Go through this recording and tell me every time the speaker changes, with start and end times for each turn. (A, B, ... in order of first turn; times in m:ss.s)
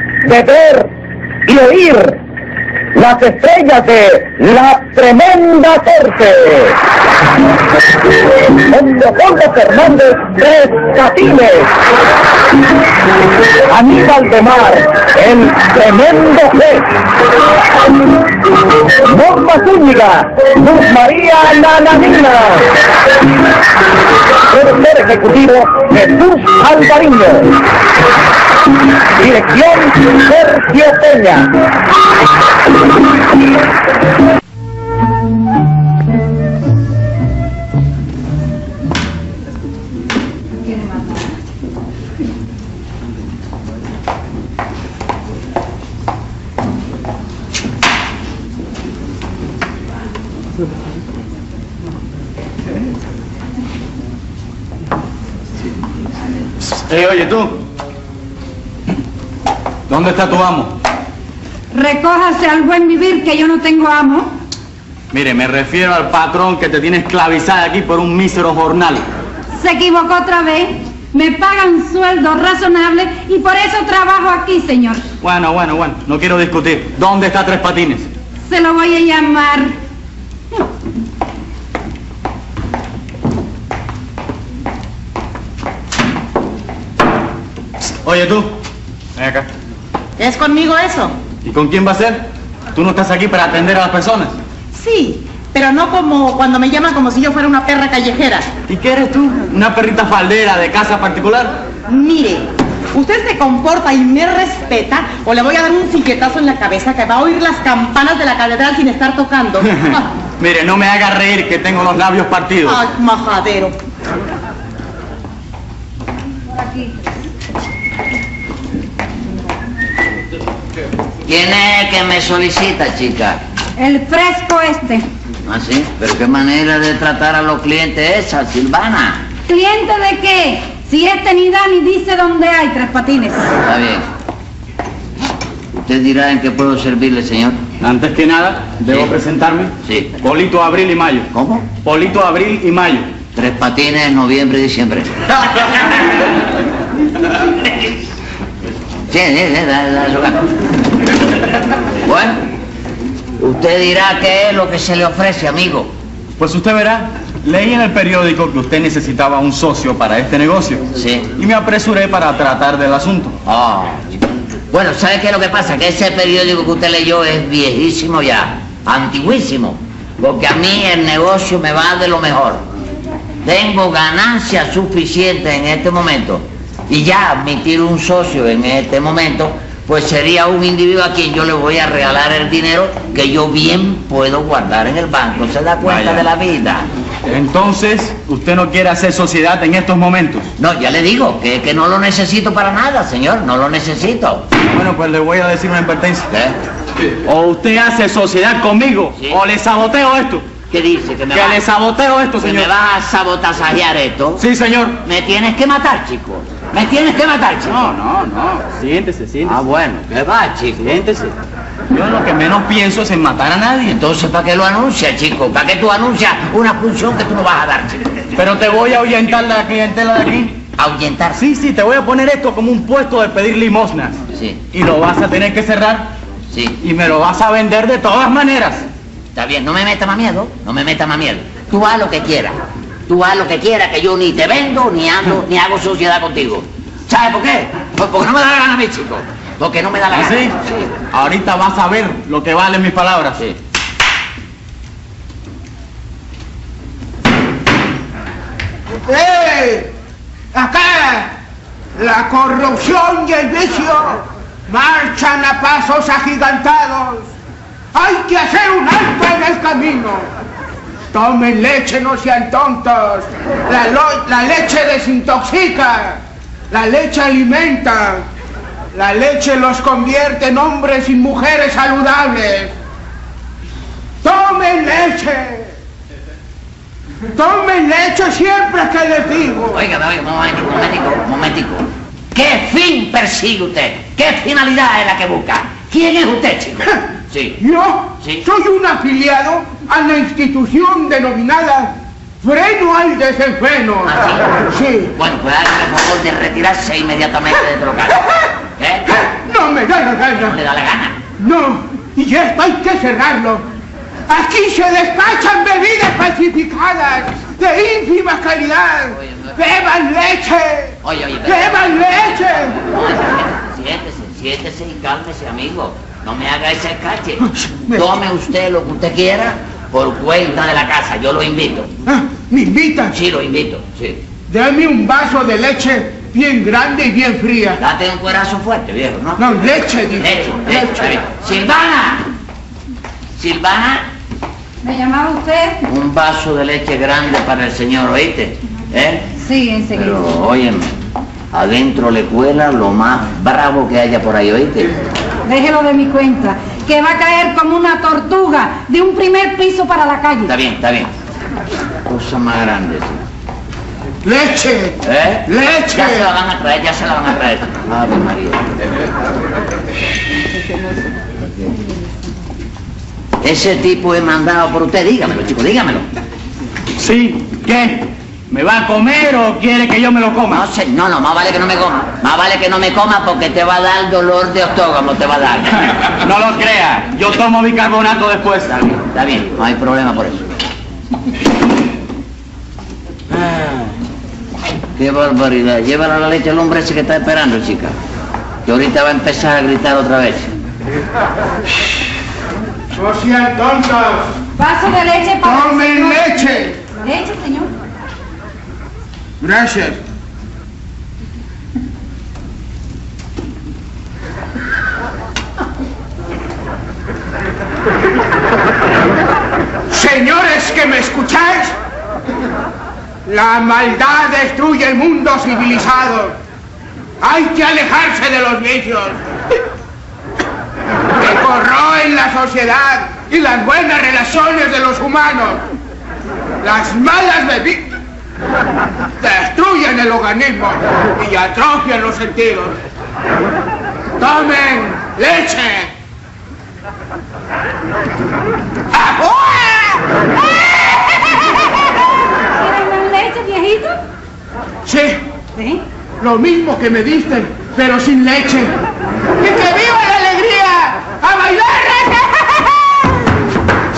0:00.2-0:00.9 A
0:01.4-0:02.2 A
0:02.9-0:06.8 A
0:08.4-0:11.7 A
0:13.7-0:17.0 A
0:18.0-0:22.8 A
0:24.5-0:27.6 A
0:29.2-0:31.5 A
0:40.6-0:41.2 B
0:56.7-0:57.6 C
0:59.9-1:00.7 C
1:01.7-1:04.3 B
1:05.1-1:09.1 C
1:09.5-1:15.0 B
1:15.2-1:18.1 C
1:18.5-1:19.7 B
1:28.0-1:28.6 C
1:29.2-1:29.5 C
1:30.2-1:31.2 D
1:31.4-1:34.4 C
1:34.7-1:38.5 D
1:38.7-1:41.6 C
1:41.9-1:50.0 D
1:49.6-1:52.8 C
1:52.6-1:53.8 D
1:56.5-1:57.0 B
2:01.2-2:03.4 E
2:03.8-2:05.0 B
2:05.5-2:09.2 E
2:09.5-2:13.5 B
2:13.6-2:14.1 E
2:15.7-2:17.6 E
2:17.8-2:21.3 C
2:19.8-2:20.1 E
2:21.3-2:21.6 E
2:21.8-2:23.1 C
2:23.3-2:25.2 E
2:29.1-2:30.6 E
2:32.0-2:32.4 E
2:33.4-2:35.9 E
2:36.4-2:43.3 C
2:40.9-2:41.3 E
2:43.4-2:52.6 E
2:53.4-3:06.9 E
3:05.8-3:06.2 C
3:07.2-3:10.5 C
3:10.6-3:14.4 E
3:14.6-3:16.3 C
3:16.3-3:16.6 E
3:17.2-3:20.5 C
3:20.7-3:21.6 E
3:21.3-3:22.7 C
3:22.4-3:24.4 E
3:24.4-3:25.0 C
3:25.0-3:27.8 E
3:27.7-3:29.6 C
3:29.5-3:31.0 E
3:30.8-3:31.3 C
3:31.9-3:34.0 C
3:33.8-3:38.3 E
3:38.3-3:40.6 C
3:40.8-3:41.4 E
3:41.4-3:44.2 C
3:44.7-3:46.1 C
3:46.5-3:46.8 E
3:46.8-3:48.9 C
3:49.3-4:00.9 E
4:00.1-4:00.5 C
4:01.1-4:03.4 C
4:09.0-4:09.9 F
4:10.5-4:11.3 F
4:12.0-4:17.3 F
4:17.9-4:20.3 F
4:21.1-4:28.2 F
4:28.9-4:32.7 F
4:34.2-4:35.7 F
4:37.3-4:39.8 F
4:39.7-4:47.6 E
4:47.6-4:55.1 F
4:54.0-4:54.6 E
4:55.2-4:58.2 E
4:58.8-4:59.1 E
4:59.1-5:00.6 F
5:00.4-5:01.2 E
5:01.4-5:03.6 F
5:04.3-5:12.8 F
5:11.0-5:12.3 E
5:12.8-5:17.4 E
5:17.4-5:18.2 F
5:17.9-5:21.9 E
5:22.0-5:23.2 F
5:23.1-5:24.2 E
5:24.5-5:27.8 F
5:27.8-5:29.4 E
5:29.4-5:31.1 F
5:30.2-5:32.2 E
5:33.4-5:34.0 E
5:34.8-5:35.8 B
5:35.9-5:39.3 E
5:39.4-5:40.2 B
5:39.9-5:40.9 E
5:41.5-5:44.9 E
5:45.4-5:50.5 B
5:50.5-5:51.1 E
5:52.0-5:53.2 E
5:54.2-5:56.3 F
5:55.0-5:58.6 E
6:03.4-6:06.0 E
6:07.0-6:10.6 C
6:10.5-6:15.9 E
6:16.2-6:18.7 C
6:18.7-6:20.4 E
6:25.0-6:27.9 E
6:28.6-6:30.5 E
6:32.9-6:34.4 F
6:34.6-6:37.7 B
6:35.4-6:36.8 F
6:39.4-6:40.0 F
6:49.9-6:51.7 F
6:53.2-6:56.4 F
6:57.2-6:59.2 F
7:01.1-7:05.6 F
7:06.6-7:07.9 F
7:09.2-7:12.8 F
7:14.2-7:15.9 F
7:18.9-7:20.0 F
7:22.5-7:24.0 B
7:24.8-7:25.2 F
7:25.5-7:25.8 B
7:26.2-7:28.7 F
7:29.4-7:33.1 F